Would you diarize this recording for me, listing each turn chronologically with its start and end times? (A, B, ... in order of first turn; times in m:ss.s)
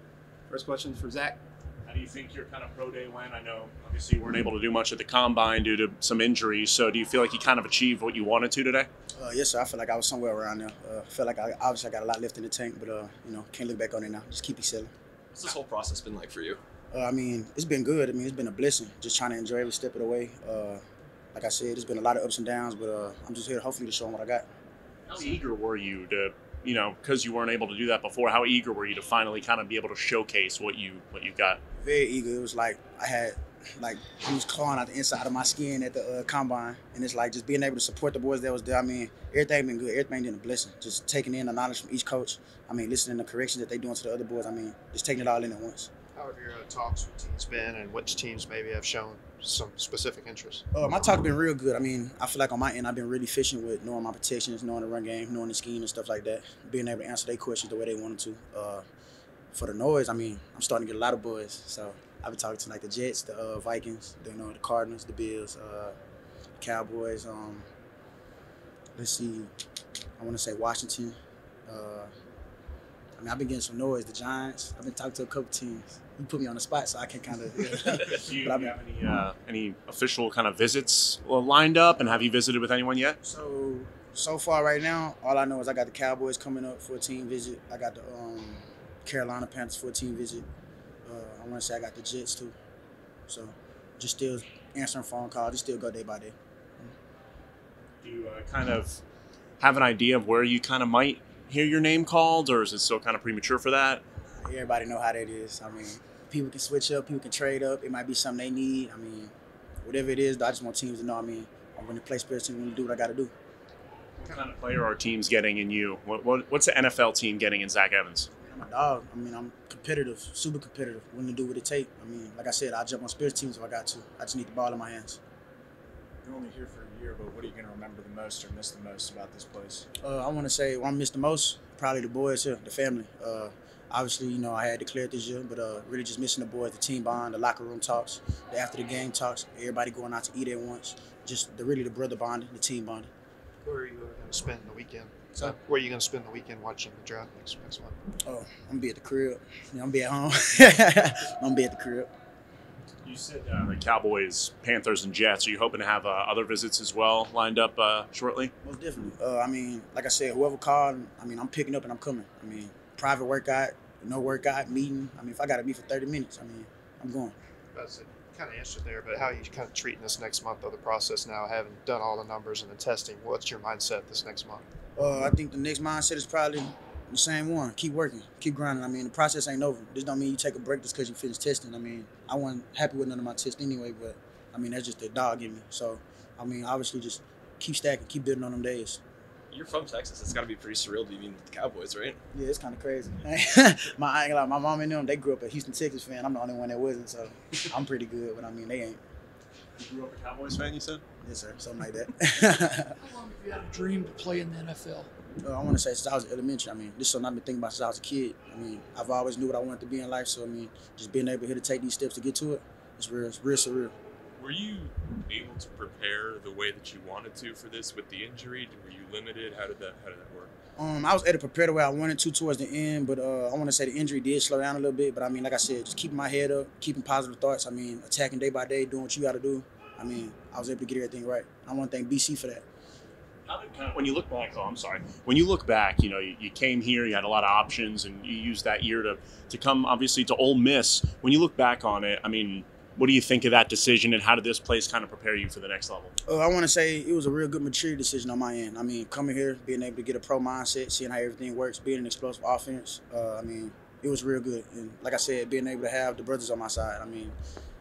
0:00.5-0:01.4 A
0:01.8-0:08.9 B
0:09.1-0:14.9 C
0:15.3-0:16.6 D
0:16.9-0:20.8 C
0:21.3-0:24.5 C
0:25.1-0:31.6 B
0:31.8-0:45.9 C
0:46.1-0:50.6 E
0:50.7-0:58.8 C
0:59.5-1:05.9 C
1:06.6-1:07.7 C
1:09.0-1:09.5 C
1:10.2-1:11.2 C
1:11.7-1:12.1 C
1:13.2-1:18.7 C
1:17.8-1:23.2 B
1:23.2-1:30.4 C
1:31.0-1:32.5 C
1:33.3-1:36.9 C
1:38.0-1:39.0 B
1:39.6-1:44.0 B
1:44.4-1:49.3 C
1:49.8-1:53.3 C
1:54.2-1:58.3 B
1:58.4-2:05.2 C
2:06.2-2:09.7 A
2:06.7-2:08.1 B
2:08.7-2:09.8 B
2:10.0-2:23.1 C
2:23.6-2:28.0 E
2:28.2-2:32.1 C
2:33.0-2:38.5 B
2:38.6-2:47.3 C
2:47.7-2:54.6 E
2:55.0-3:09.0 C
3:09.5-3:12.2 D
3:12.3-3:19.0 C
3:19.8-3:21.0 B
3:21.2-3:23.0 C
3:23.0-3:25.1 F
3:25.4-3:33.9 C
3:34.4-3:40.5 G
3:40.8-3:52.6 C
3:53.4-4:06.1 B
4:06.2-4:17.3 C